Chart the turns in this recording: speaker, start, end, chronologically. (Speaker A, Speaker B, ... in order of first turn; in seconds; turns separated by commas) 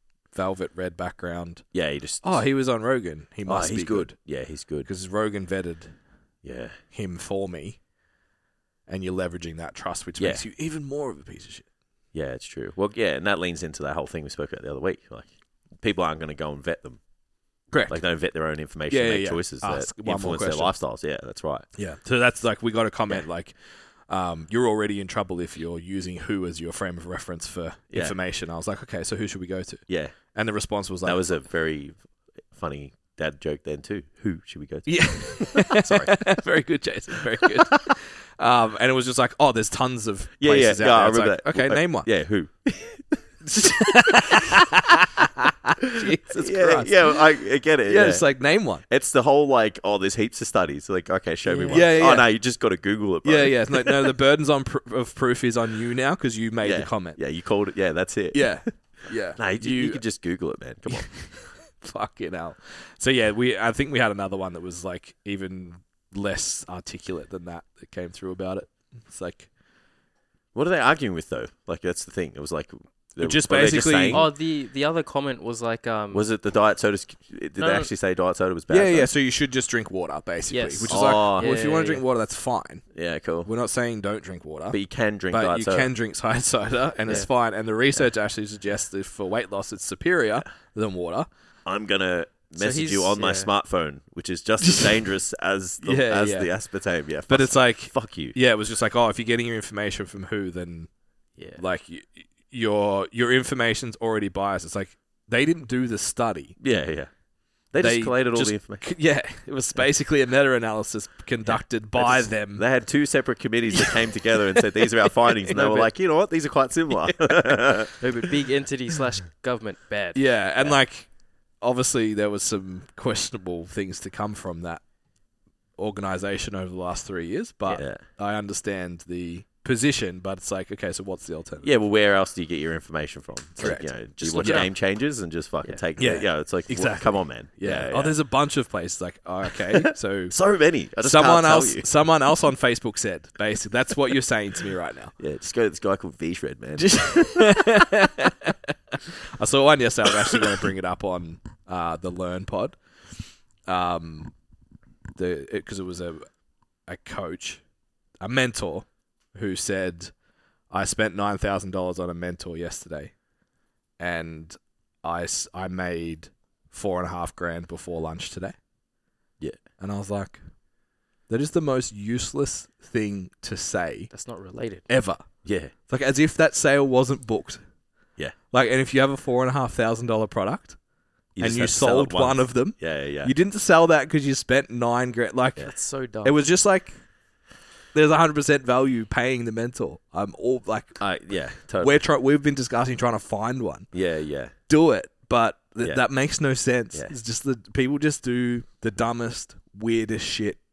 Speaker A: 0.3-1.6, Speaker B: 1.7-2.4, Speaker A: 2.2-4.2, Speaker B: 3.5-4.9, Speaker A: 4.8-6.0, Speaker B: 6.4-6.8, Speaker A: 6.9-7.8, Speaker A: 8.9-11.7, Speaker B: 10.2-10.4, Speaker B: 12.1-17.0, Speaker A: 17.7-18.0, Speaker B: 17.9-21.7, Speaker A: 18.9-20.7, Speaker A: 21.8-31.2, Speaker B: 27.9-28.2, Speaker B: 29.9-30.1, Speaker B: 31.0-36.4, Speaker A: 34.9-42.1, Speaker B: 40.4-44.6, Speaker A: 43.5-47.2, Speaker B: 46.0-48.3, Speaker A: 47.9-48.8, Speaker B: 48.9-54.1, Speaker C: 51.5-51.8, Speaker A: 51.7-52.4, Speaker A: 53.2-57.2, Speaker B: 56.6-58.6, Speaker A: 58.3-60.0, Speaker B: 59.4-61.1, Speaker A: 60.9-69.5, Speaker B: 70.5-74.3, Speaker A: 73.2-74.3, Speaker C: 74.1-76.3, Speaker B: 76.1-79.1, Speaker C: 77.6-77.9, Speaker A: 78.7-82.9, Speaker C: 80.5-82.0, Speaker B: 80.9-81.5, Speaker B: 82.9-83.5, Speaker A: 83.5-84.8, Speaker B: 84.7-85.9, Speaker A: 85.3-91.3, Speaker B: 91.7-98.4, Speaker C: 92.6-93.5, Speaker A: 94.6-94.9, Speaker A: 95.8-96.5, Speaker A: 97.3-100.9, Speaker A: 101.6-106.6, Speaker B: 106.6-107.1, Speaker B: 107.7-108.8, Speaker A: 107.8-112.7, Speaker B: 111.5-117.9, Speaker C: 115.5-115.9, Speaker A: 117.1-117.5, Speaker C: 118.0-120.2, Speaker A: 120.2-124.8, Speaker A: 125.8-131.7, Speaker B: 127.7-128.0, Speaker B: 131.6-138.2, Speaker A: 133.6-134.7, Speaker C: 134.4-134.7, Speaker A: 136.0-140.4, Speaker B: 139.9-141.9, Speaker A: 141.0-145.2, Speaker B: 145.2-147.5, Speaker A: 146.8-148.6, Speaker A: 149.3-154.3, Speaker A: 155.2-156.3, Speaker A: 156.9-157.6, Speaker A: 158.2-160.1, Speaker A: 160.7-163.1, Speaker A: 164.0-168.6, Speaker A: 169.8-170.4, Speaker A: 171.3-174.1, Speaker C: 174.1-174.9, Speaker A: 174.9-175.3, Speaker B: 175.4-175.7, Speaker A: 175.8-177.6, Speaker A: 178.5-180.8, Speaker B: 181.3-183.3, Speaker A: 181.4-187.0, Speaker C: 185.6-186.4, Speaker A: 187.9-191.0, Speaker B: 191.0-192.0, Speaker A: 191.8-193.9, Speaker B: 193.9-194.5, Speaker A: 194.7-200.6